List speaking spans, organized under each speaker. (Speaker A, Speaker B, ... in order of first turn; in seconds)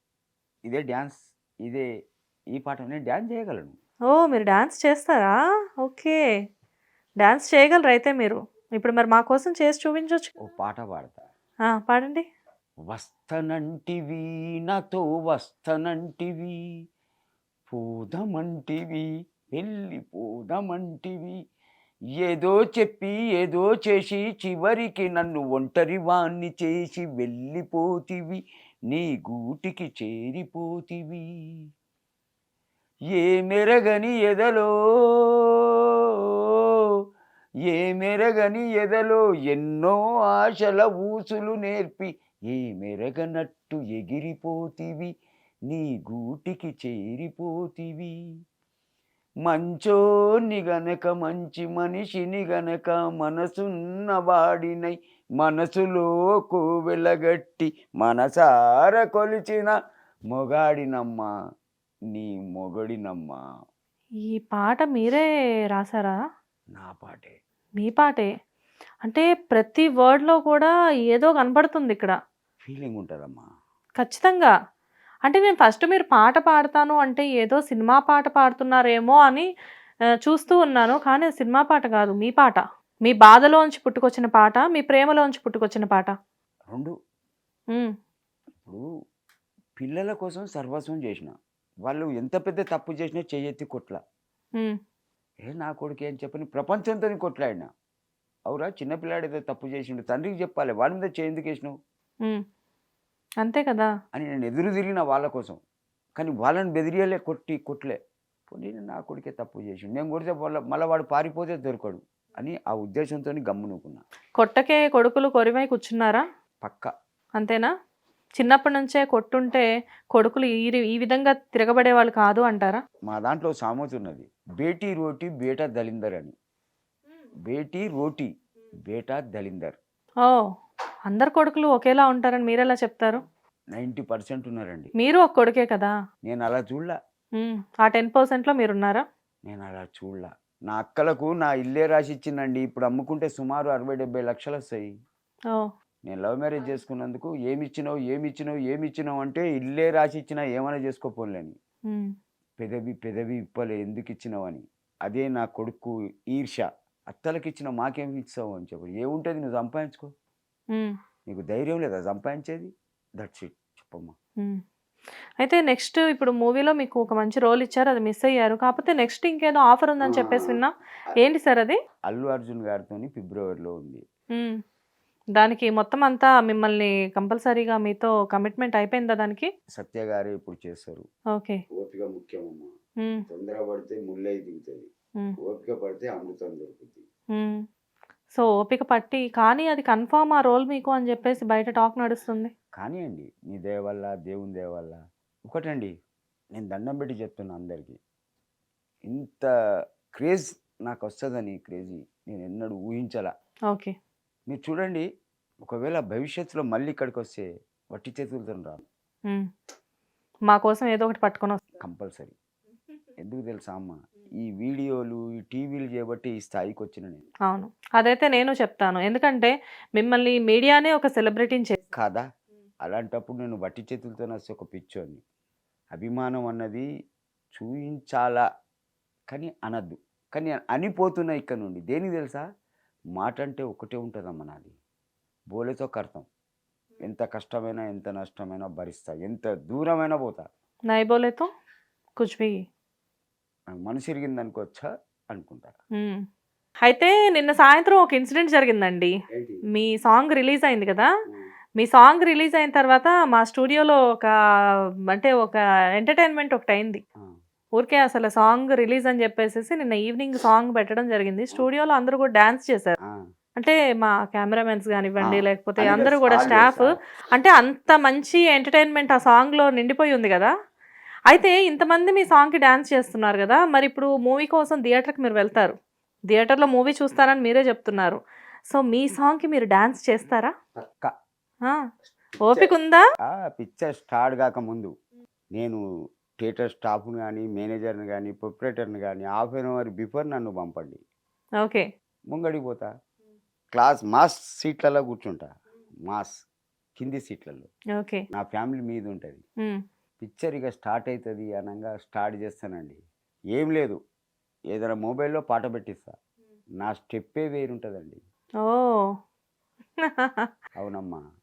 Speaker A: 0.7-1.9, 2.5-3.7, 10.4-11.2, 12.9-16.6, 17.7-21.4, 22.2-31.3, 33.1-37.0, 37.7-45.1, 45.7-48.1, 49.5-59.7, 60.3-61.3, 62.1-63.4, 66.8-67.4, 72.6-73.5, 89.8-91.3, 91.8-94.0, 95.4-97.7, 98.5-101.8, 104.1-105.6, 106.2-114.0, 116.6-116.9, 123.1-126.3, 127.5-128.3, 128.9-129.8, 133.7-134.9, 136.2-136.9, 139.5-144.9, 146.1-151.6, 152.6-160.1, 161.3-164.1, 170.0-170.6, 172.1-174.0, 179.8-181.0, 181.7-182.7, 183.3-184.9, 185.4-187.0, 192.8-195.9, 196.5-198.0, 199.1-199.5, 200.1-203.3, 204.5-205.1, 205.6-208.8, 211.8-212.3, 213.2-217.3, 221.9-222.2, 222.8-225.2, 225.9-226.8, 227.5-228.4, 229.3-232.4, 233.2-234.8, 235.5-236.3, 237.0-240.4, 243.8-245.7, 249.3-249.6, 265.2-267.0, 280.8-281.1, 282.4-282.7, 283.3-284.9, 285.6-285.8, 286.4-291.0, 292.3-292.9, 293.7-295.5, 296.1-296.3, 297.0-297.7, 298.3-299.4, 300.2-303.0, 303.5-304.0, 304.7-306.1, 306.8-308.2, 310.8-311.2
Speaker B: 4.1-6.2, 7.2-10.3, 11.7-12.2, 64.3-66.2, 67.8-68.3, 69.0-72.2, 74.0-74.5, 75.3-79.5, 80.2-86.1, 103.4-103.9, 114.4-116.2, 117.4-117.7, 118.4-122.8, 131.1-133.2, 135.0-135.9, 137.4-139.0, 165.4-171.8, 175.3-179.5, 181.3-181.6, 187.3-187.6, 188.3-192.5, 210.5-211.7, 217.5-221.8, 240.9-241.5, 242.2-242.6, 246.0-246.2, 246.8-249.1, 249.7-251.1, 251.8-254.3, 255.1-257.0, 257.8-262.9, 263.6-270.5, 271.3-275.8, 276.3-278.2, 278.7-280.5, 282.4-283.0, 298.0-298.2, 308.6-309.1, 310.0-310.5